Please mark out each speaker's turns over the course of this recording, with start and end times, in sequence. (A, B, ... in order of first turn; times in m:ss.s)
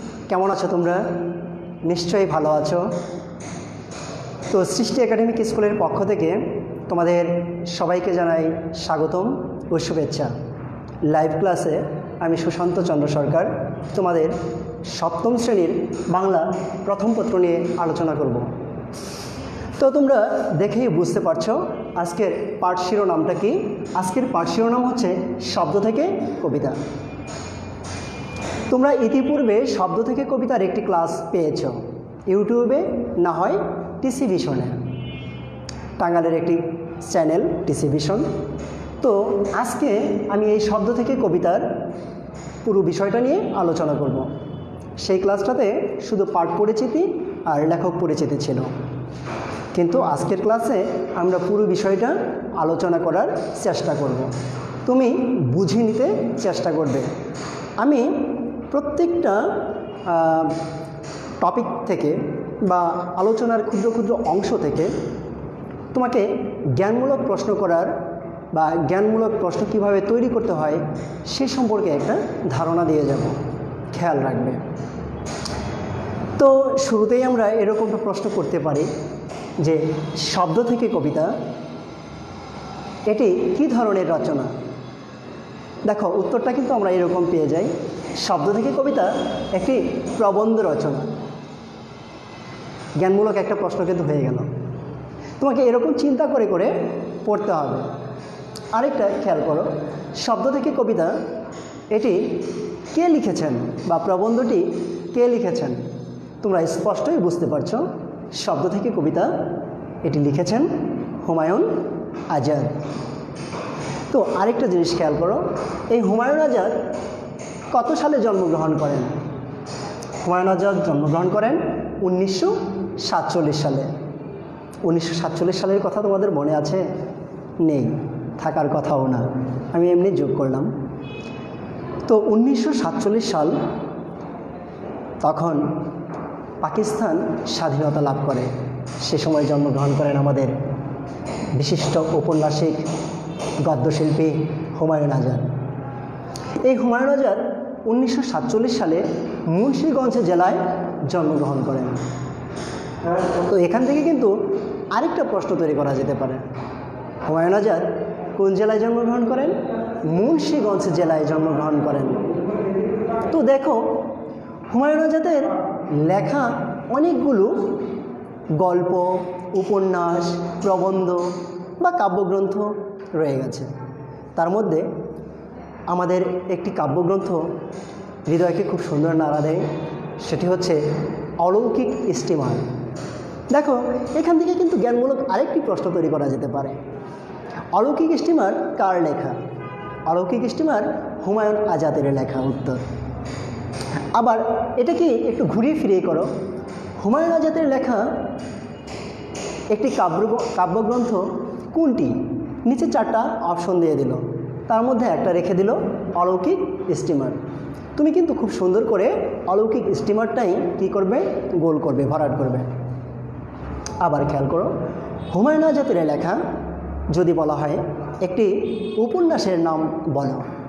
0:00.3-0:01.1 A
0:01.8-0:02.9 A
0:04.5-0:10.3 A
0:11.1-0:18.5 A
0:19.8-0:26.8 A
0:28.7-0:31.8 A
0:32.3-0:34.8 A
0:36.0-0:38.3 A
0:39.0-0:41.7 A
0:42.6-0:44.3 A
0:45.0-0:48.7 A
0:49.7-0:54.3 A
0:54.8-0:57.1 A
0:57.8-0:59.4 A
1:00.1-1:00.6 A
1:01.4-1:04.9 A
1:05.9-1:07.9 A
1:08.5-1:13.4 A
1:13.9-1:14.6 A
1:16.4-1:18.9 A
1:19.6-1:21.3 A
1:23.1-1:24.5 A
1:25.9-1:31.2 A
1:33.0-1:34.5 A
1:35.4-1:36.7 A
1:37.2-1:37.9 A
1:38.7-1:41.2 A
1:41.9-1:45.8 A
1:46.4-1:49.3 A
1:50.0-1:50.7 A
1:51.2-1:51.7 A
1:52.3-1:52.7 A
1:54.1-1:56.8 A
1:57.7-1:59.2 A
2:00.2-2:03.9 A
2:04.8-2:06.8 A
2:07.6-2:10.7 A
2:12.1-2:13.6 A
2:15.2-2:15.8 A
2:16.6-2:20.5 A
2:21.6-2:22.9 A
2:23.6-2:25.5 A
2:26.6-2:32.0 A
2:33.4-2:34.4 A
2:34.9-2:36.4 A
2:37.3-2:39.6 A
2:40.1-2:42.3 A
2:43.3-2:44.0 A
2:44.7-2:47.7 A
2:48.6-2:53.7 A
2:54.4-2:54.9 A
2:55.9-2:57.4 A
2:58.3-2:59.7 A
3:00.2-3:00.8 A
3:01.4-3:02.6 A
3:03.5-3:06.8 A
3:07.8-3:09.4 A
3:10.1-3:12.8 A
3:14.2-3:16.3 A
3:17.0-3:18.1 A
3:19.7-3:27.4 A
3:28.0-3:32.7 A
3:34.0-3:34.7 A
3:35.3-3:36.4 A
3:37.1-3:40.5 A